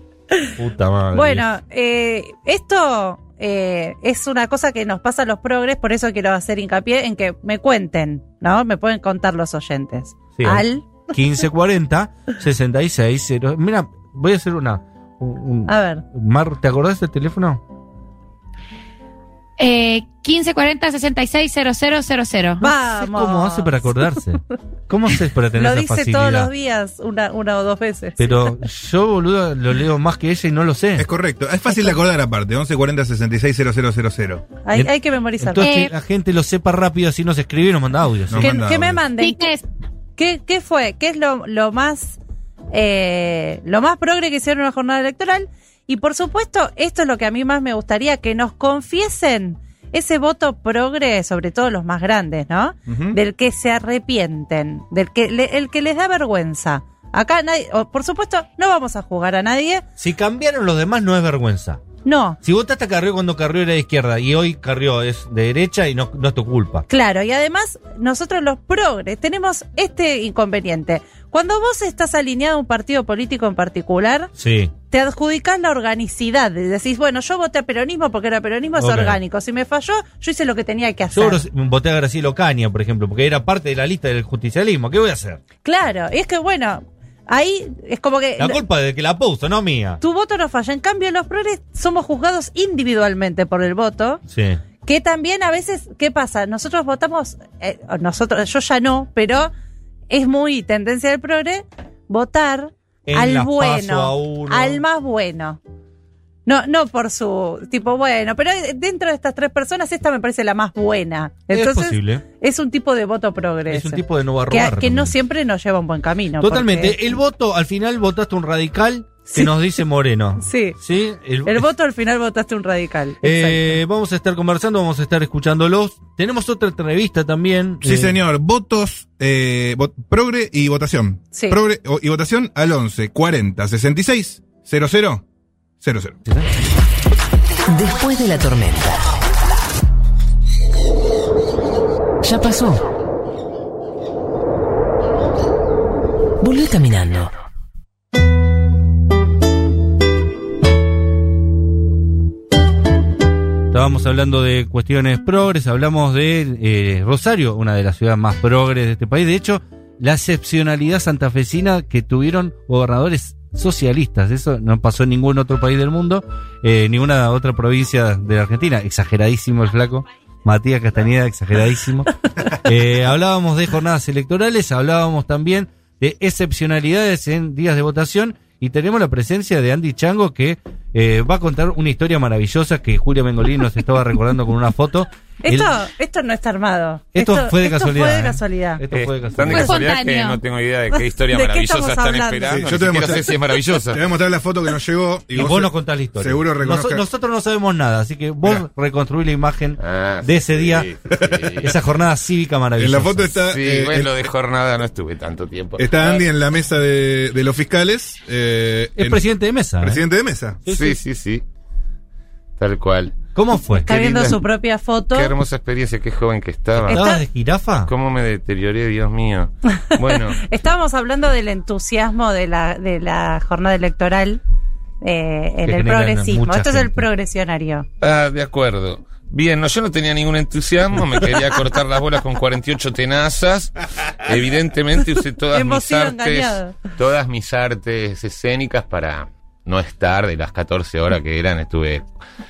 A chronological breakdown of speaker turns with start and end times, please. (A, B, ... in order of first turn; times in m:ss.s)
0:00.6-0:01.5 A
0:01.1-0:10.9 B
0:10.4-0:17.6 A
0:15.6-0:16.0 B
0:19.6-0:22.7 C
0:22.6-0:24.2 B
0:22.9-0:26.5 A
0:25.5-0:28.6 B
0:28.2-0:31.1 A
0:31.0-0:34.5 D
0:34.6-0:35.7 B
0:34.7-0:38.6 A
0:35.6-0:35.9 C
0:38.3-0:39.0 D
0:38.4-0:39.5 B
0:39.2-0:39.6 C
0:40.2-0:42.2 B
0:42.7-0:59.8 B
0:52.9-0:53.2 D
1:00.0-1:01.8 A
1:02.0-1:02.4 B
1:02.4-1:06.8 A
1:06.9-1:14.3 B
1:14.4-1:14.7 A
1:14.9-1:21.4 B
1:18.8-1:19.2 A
1:21.1-1:25.4 A
1:25.6-1:28.6 B
1:28.4-1:30.0 A
1:30.0-1:34.2 B
1:34.3-1:34.6 A
1:34.8-1:39.5 B
1:40.1-1:45.6 B
1:43.0-1:44.8 A
1:46.4-1:57.0 B
1:51.5-1:52.2 A
1:53.7-1:55.1 A
1:56.4-2:01.7 A
2:00.4-2:00.8 B
2:01.4-2:03.8 B
2:03.2-2:08.2 A
2:07.8-2:15.2 D
2:11.3-2:11.6 B
2:15.8-2:16.2 D
2:17.7-2:19.1 E
2:22.2-2:22.8 E
2:26.4-2:27.3 E
2:33.7-3:05.8 A
3:05.4-3:08.8 B
3:07.1-3:09.8 A
3:08.9-3:14.0 F
3:09.5-3:10.4 C
3:10.9-3:12.5 B
3:12.5-3:13.4 D
3:13.9-3:17.0 D
3:15.3-3:20.9 A
3:19.8-3:21.7 F
3:21.2-3:21.4 D
3:21.5-3:23.4 A
3:22.8-3:24.1 D
3:23.5-3:26.3 F
3:25.8-3:29.2 D
3:29.0-3:30.0 A
3:29.8-3:30.6 D
3:30.6-3:31.0 A
3:30.6-3:31.4 F
3:32.6-3:33.2 F
3:33.3-3:33.9 A
3:33.7-3:35.3 B
3:33.8-3:34.4 F
3:35.1-3:37.1 F
3:36.8-3:37.9 A
3:36.9-3:37.2 B
3:37.8-3:40.4 F
3:40.3-3:44.4 B
3:45.0-3:47.8 B
3:45.6-3:47.1 A
3:48.0-4:02.0 F
3:55.5-3:56.7 B